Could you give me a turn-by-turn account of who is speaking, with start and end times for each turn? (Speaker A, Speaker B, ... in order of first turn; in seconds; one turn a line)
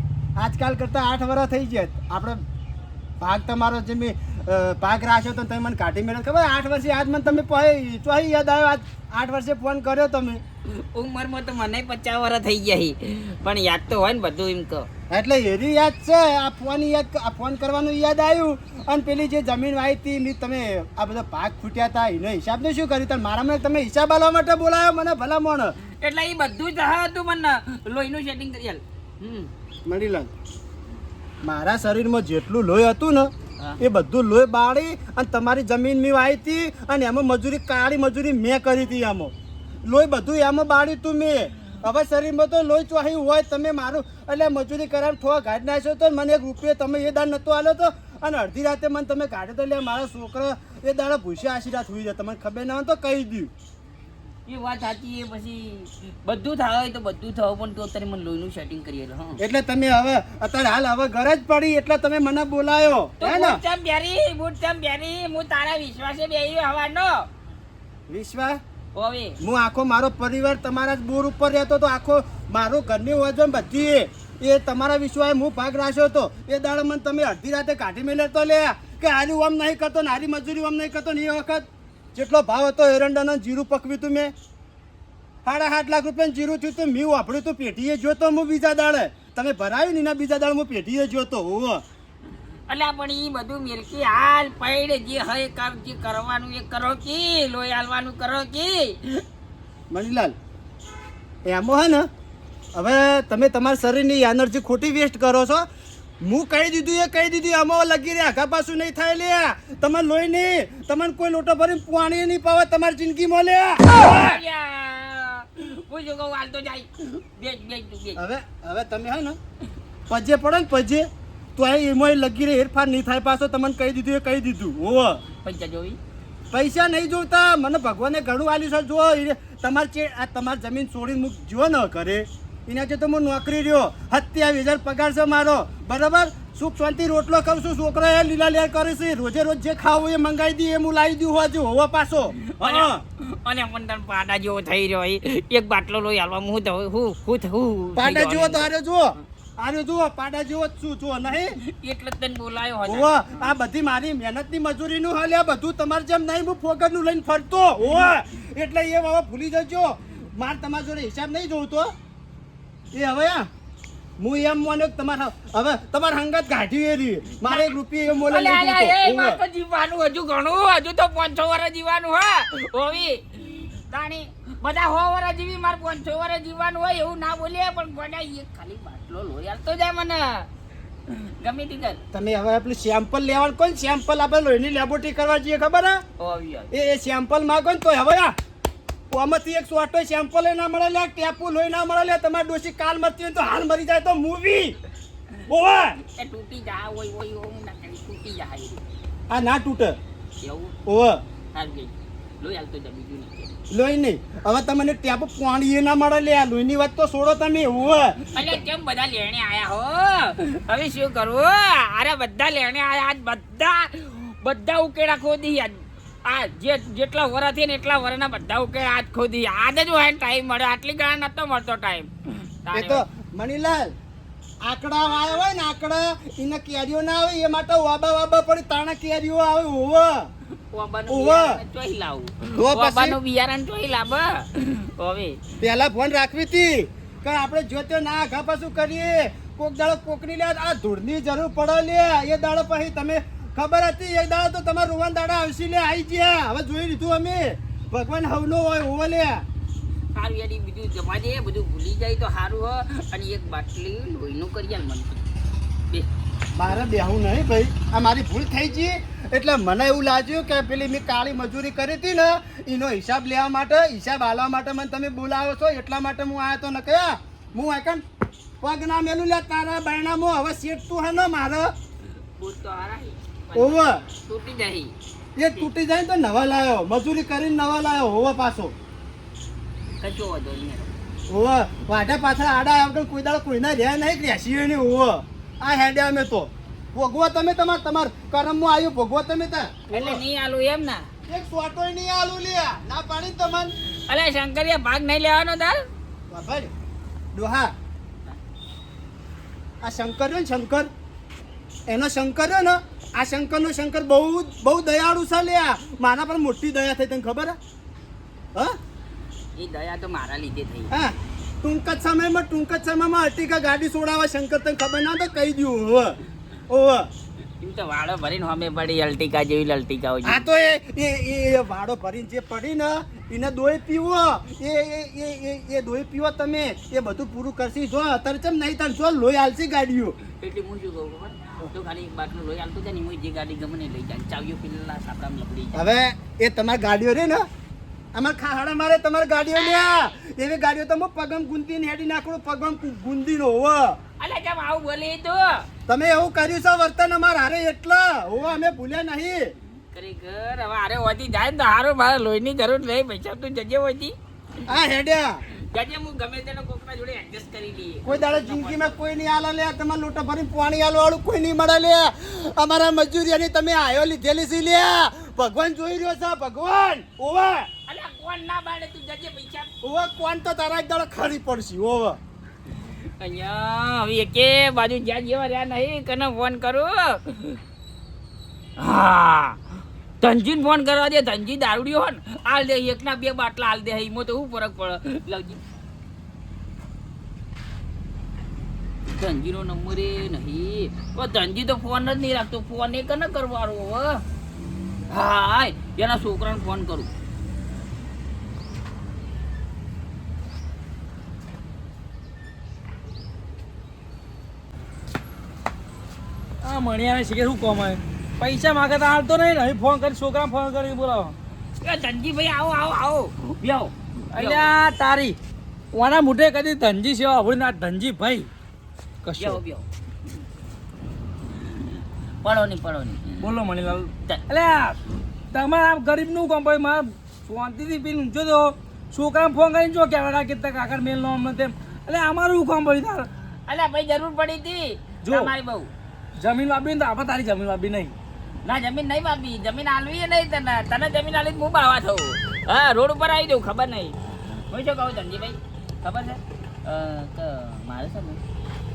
Speaker A: 0.4-2.4
Speaker A: 3.2-10.4
Speaker B: 10.7-14.9
Speaker A: 15.1-25.7
Speaker B: 26.0-29.5
Speaker A: 29.9-30.3
Speaker A: 31.4-39.3
Speaker A: 39.8-53.5
Speaker B: 54.5-59.4
Speaker A: 59.4-63.6
Speaker B: 63.2-67.3
Speaker A: 68.1-68.6
Speaker B: 69.0-69.4
Speaker A: 69.4-84.3
Speaker A: 85.4-91.8
Speaker B: 92.7-99.2
Speaker A: 99.9-100.3
Speaker A: 101.5-102.0
Speaker A: 102.7-105.6
Speaker A: 106.2-114.4
Speaker B: 113.9-118.2
Speaker A: 118.2-119.4
Speaker A: 120.1-125.2
Speaker B: 125.4-126.0
Speaker A: 126.5-143.0
Speaker B: 142.4-148.7
Speaker A: 147.9-151.5
Speaker B: 151.6-153.1
Speaker A: 152.8-161.9
Speaker A: 162.9-163.4
Speaker A: 164.2-169.4
Speaker B: 167.4-180.5
Speaker B: 181.1-182.0
Speaker A: 182.1-186.0
Speaker B: 186.2-186.7
Speaker A: 186.7-188.3
Speaker A: 189.1-194.8
Speaker A: 195.5-196.0
Speaker B: 196.0-198.8
Speaker A: 199.3-200.0
Speaker B: 200.4-200.7
Speaker A: 200.8-201.2
Speaker B: 201.5-203.6
Speaker A: 203.7-208.5
Speaker B: 208.3-223.0
Speaker A: 222.7-223.9
Speaker A: 224.6-230.3
Speaker B: 230.7-235.4
Speaker A: 231.1-231.6
Speaker A: 232.6-233.2
Speaker A: 235.6-249.4
Speaker B: 250.1-255.2
Speaker A: 256.5-268.0
Speaker A: 268.6-271.7
Speaker B: 272.4-274.9
Speaker A: 273.5-274.0
Speaker A: 275.4-278.7
Speaker B: 280.0-280.9
Speaker A: 281.3-290.2
Speaker B: 289.9-291.1
Speaker A: 291.3-293.7
Speaker B: 294.1-295.8
Speaker A: 296.3-296.7
Speaker A: 297.3-297.7
Speaker A: 299.8-300.9
Speaker A: 301.9-307.6
Speaker B: 309.6-310.9
Speaker A: 310.9-316.2
Speaker A: 316.7-317.1
Speaker B: 317.6-320.4
Speaker A: 320.2-330.2
Speaker B: 330.4-335.8
Speaker A: 335.7-337.4
Speaker A: 338.1-344.0
Speaker B: 344.2-345.6
Speaker A: 345.9-349.4
Speaker B: 349.9-354.1
Speaker A: 354.7-355.4
Speaker B: 355.7-359.0
Speaker A: 358.0-367.7
Speaker B: 367.9-369.7
Speaker A: 369.8-372.2
Speaker B: 372.9-377.6
Speaker B: 378.8-379.6
Speaker B: 380.2-385.6
Speaker B: 389.1-394.2
Speaker B: 395.1-397.1
Speaker C: 406.6-411.4
Speaker B: 411.8-414.7
Speaker C: 414.3-415.4
Speaker C: 415.9-418.5
Speaker C: 419.2-419.6
Speaker B: 419.4-419.9
Speaker B: 422.4-423.4
Speaker C: 423.4-425.0
Speaker C: 425.5-433.3
Speaker B: 433.7-435.9
Speaker C: 435.2-435.5
Speaker C: 436.4-438.1
Speaker B: 438.6-448.4